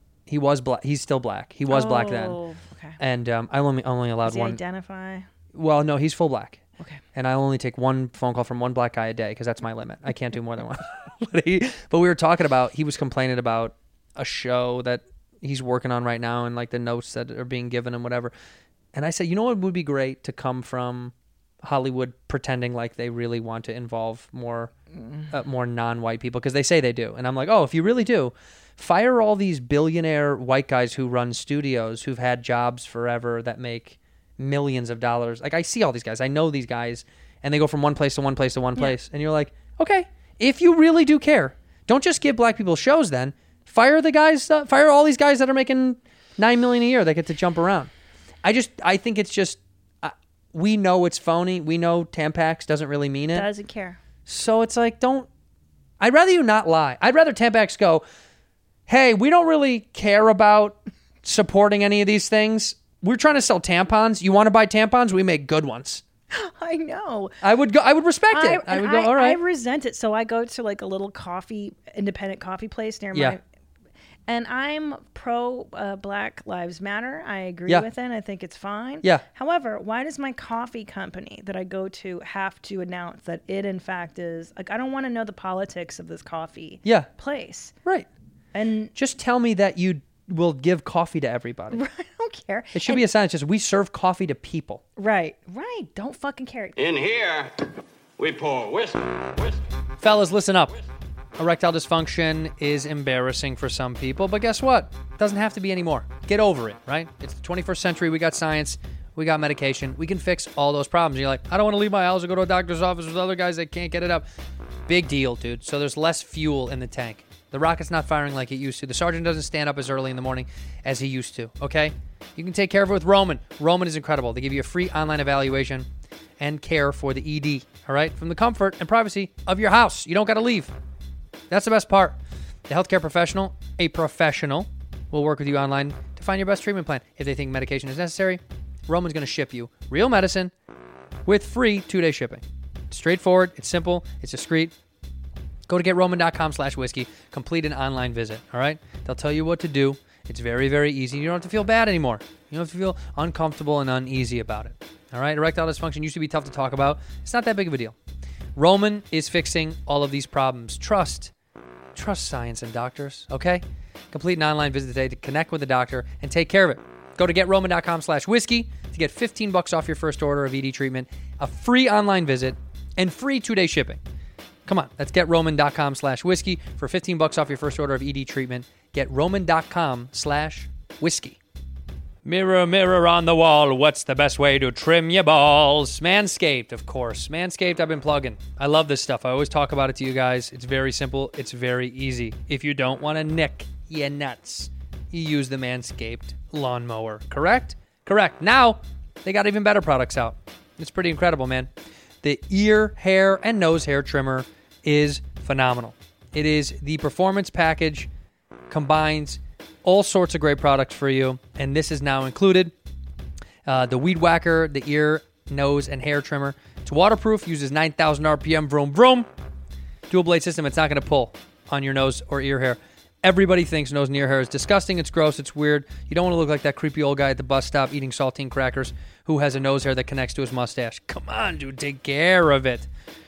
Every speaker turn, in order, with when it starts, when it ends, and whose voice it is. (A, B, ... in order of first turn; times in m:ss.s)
0:00.3-0:02.4 A
0:01.7-0:03.0 B
0:03.0-0:04.6 A
0:04.2-0:05.3 B
0:05.5-0:06.6 A
0:07.1-0:18.3 A
0:18.9-0:24.7 A
0:25.3-0:47.9 A
0:48.4-0:53.5 A
0:53.3-0:54.0 B
0:54.2-0:55.3 A
0:56.0-0:58.0 A
0:58.9-1:06.0 A
1:06.3-1:07.3 B
1:07.4-1:09.4 A
1:08.3-1:13.4 B
1:13.1-1:13.4 A
1:14.3-1:27.7 B
1:28.5-1:28.9 B
1:28.9-1:31.8 A
1:31.7-1:33.0 B
1:32.7-1:34.8 A
1:35.0-1:36.8 B
1:36.8-1:37.6 C
1:38.2-1:39.6 C
1:40.0-1:40.7 A
1:41.4-1:54.3 A
1:54.9-2:05.9 A
2:06.4-2:10.7 A
2:11.5-2:20.5 A
2:21.2-2:24.7 A
2:25.7-2:38.0 A
2:38.6-2:41.3 A
2:41.9-2:54.0 A
2:54.6-3:01.4 A
3:02.2-3:21.7 A
3:22.2-3:28.1 A
3:28.7-3:32.7 A
3:33.6-3:39.3 A
3:40.1-3:52.9 A